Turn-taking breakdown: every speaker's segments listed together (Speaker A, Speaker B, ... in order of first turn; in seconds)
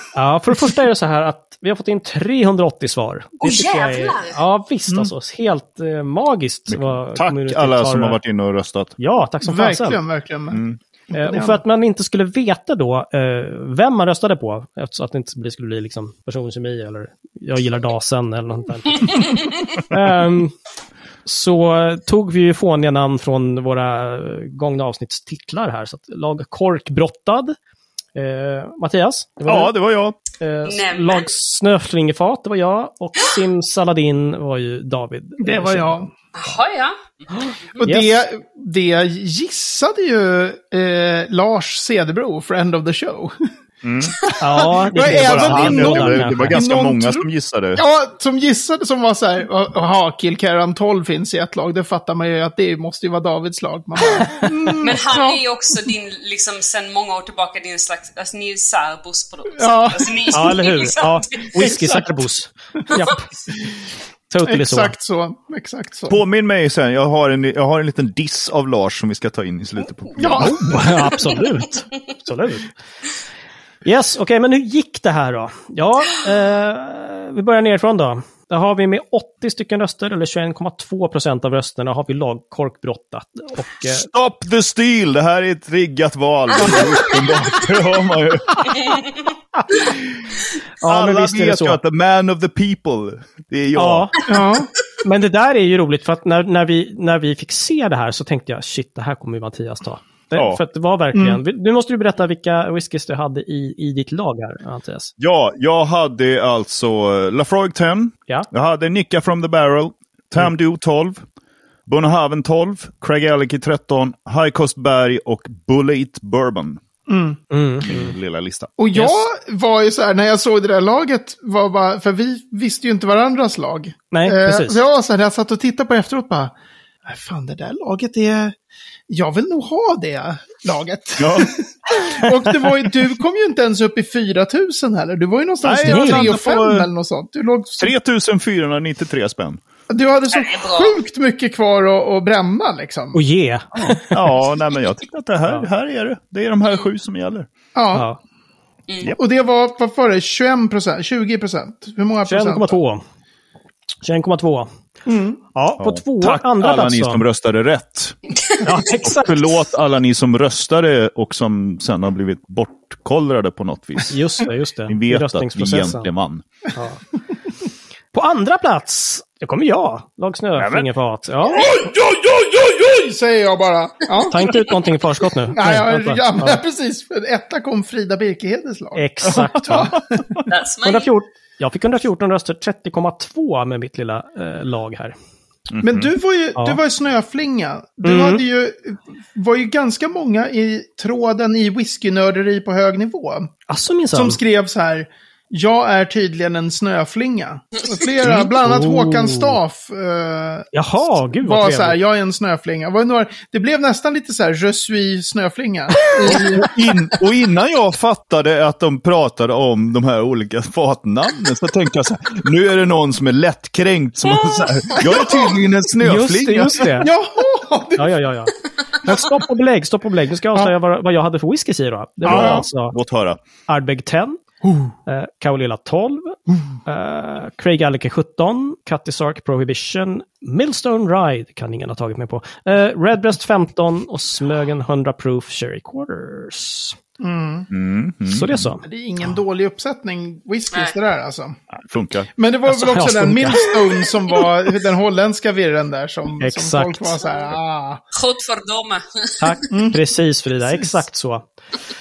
Speaker A: 0.1-8.2, 9.0-10.0, 11.1-20.5, 21.2-27.5, 28.1-29.7, 30.4-36.1, 37.8-38.1, 44.4-46.6, 54.4-54.7, 60.3-63.2, 64.3-64.9, 70.4-72.7, 73.8-84.1, 89.6-89.8, 90.8-91.8, 93.7-94.2, 95.0-105.1, 117.5-118.2, 124.1-124.8, 135.8-136.4, 143.1-144.3, 147.9-148.2, 152.2-153.0, 154.0-154.7, 155.5-157.2, 158.6-159.6, 164.1-166.1, 166.7-167.0, 168.1-171.7, 174.3-176.6, 178.9-180.0, 180.8-185.1, 188.0-188.4, 193.7-194.4, 198.2-199.6, 200.7-202.0, 216.0-217.1, 217.9-223.0, 223.7-224.4, 225.1-237.0, 238.3-238.8, 242.7-243.8, 246.4-247.2, 249.4-251.4
Speaker B: 3.4-4.4, 30.6-31.3, 36.3-37.0, 54.8-62.0, 140.3-141.0, 148.9-149.1, 158.3-158.6, 180.4-181.1, 197.8-198.0, 214.2-215.2, 248.1-249.7
Speaker C: 6.7-8.9, 10.5-10.8, 29.4-30.1, 43.8-44.3, 44.9-47.8, 66.1-70.8, 83.8-88.9, 90.8-94.1, 100.3-100.6, 105.2-111.2, 111.9-116.8, 117.8-118.7, 131.2-131.5, 135.6-136.9, 137.8-139.6, 143.8-147.5, 155.8-158.2, 159.0-164.2, 164.9-166.4, 170.6-170.9, 171.6-172.9, 179.2-180.4, 185.7-186.1, 206.2-216.8, 222.2-223.4, 237.7-238.7, 241.7-242.3
Speaker D: 9.4-11.6, 35.4-36.1, 37.8-43.4, 44.9-55.4, 59.6-60.6, 61.6-62.1, 64.4-66.2, 70.1-70.9, 94.2-94.7, 101.1-101.4, 117.1-117.4, 118.8-128.6, 129.1-137.9, 139.9-143.2, 147.7-148.1, 149.1-152.8, 155.1-155.4, 171.6-171.9, 172.8-174.9, 175.5-180.0, 185.8-193.5, 194.1-200.7, 201.4-206.7, 215.0-215.4, 216.8-218.2, 222.2-222.7, 224.6-224.9, 237.2-237.7, 238.8-241.6, 242.3-248.0, 249.7-250.0, 250.7-251.0